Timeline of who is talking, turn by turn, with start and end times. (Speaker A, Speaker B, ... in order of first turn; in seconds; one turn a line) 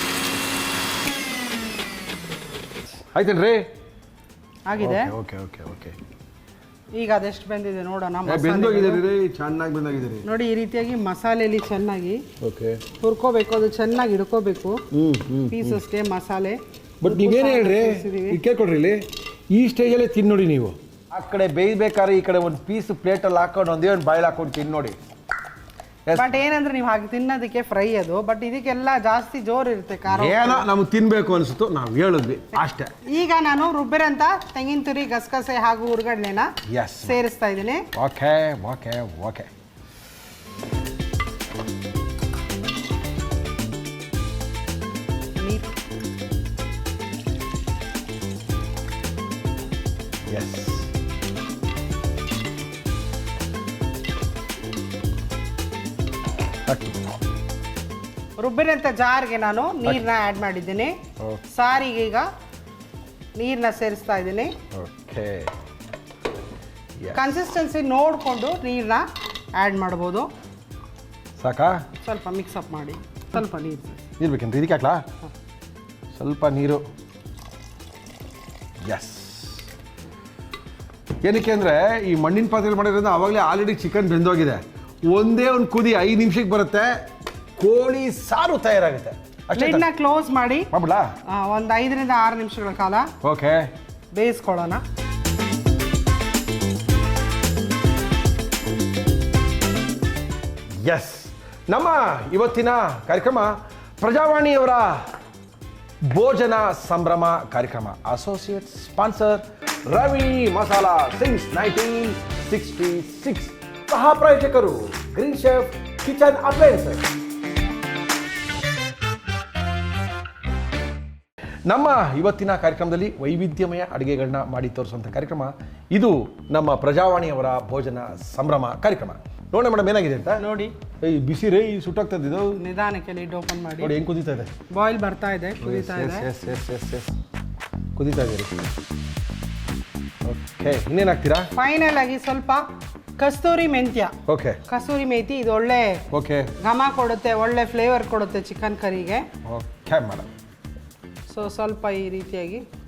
Speaker A: 3.1-3.7
Speaker B: 4.7-5.1
Speaker A: 4.8-6.0
Speaker B: 7.0-9.0
Speaker A: 8.2-10.2
Speaker B: 10.2-12.2
Speaker A: 12.4-12.8
Speaker B: 13.0-14.8
Speaker A: 14.9-15.8
Speaker B: 15.5-18.4
Speaker A: 17.0-25.0
Speaker A: 26.1-26.3
Speaker B: 26.1-30.7
Speaker A: 30.1-32.9
Speaker B: 33.0-37.9
Speaker A: 36.6-37.2
Speaker A: 37.9-39.5
Speaker B: 45.4-45.7
Speaker A: 50.3-50.9
Speaker A: 56.7-57.1
Speaker B: 58.4-61.0
Speaker B: 61.5-62.3
Speaker B: 63.4-64.5
Speaker A: 64.7-65.5
Speaker A: 67.0-67.4
Speaker B: 67.1-70.3
Speaker A: 71.4-71.8
Speaker B: 72.0-74.0
Speaker A: 74.2-75.0
Speaker A: 76.1-76.8
Speaker A: 78.8-79.7
Speaker A: 81.2-89.9
Speaker B: 89.5-90.7
Speaker A: 90.7-91.1
Speaker B: 91.3-93.1
Speaker A: 93.2-93.7
Speaker B: 94.1-94.8
Speaker A: 100.8-105.1
Speaker A: 106.0-117.0
Speaker A: 121.7-130.4
Speaker B: 130.4-130.7
Speaker A: 131.0-132.6
Speaker B: 132.6-133.9
Speaker A: 133.8-134.5
Speaker B: 134.7-136.3
Speaker A: 135.6-137.1
Speaker A: 137.9-138.7
Speaker A: 140.2-141.5
Speaker B: 141.5-142.7
Speaker B: 143.2-144.2
Speaker A: 144.3-144.6
Speaker B: 144.7-146.0
Speaker A: 146.1-146.5
Speaker B: 146.6-149.3
Speaker A: 149.4-150.3
Speaker B: 151.3-152.7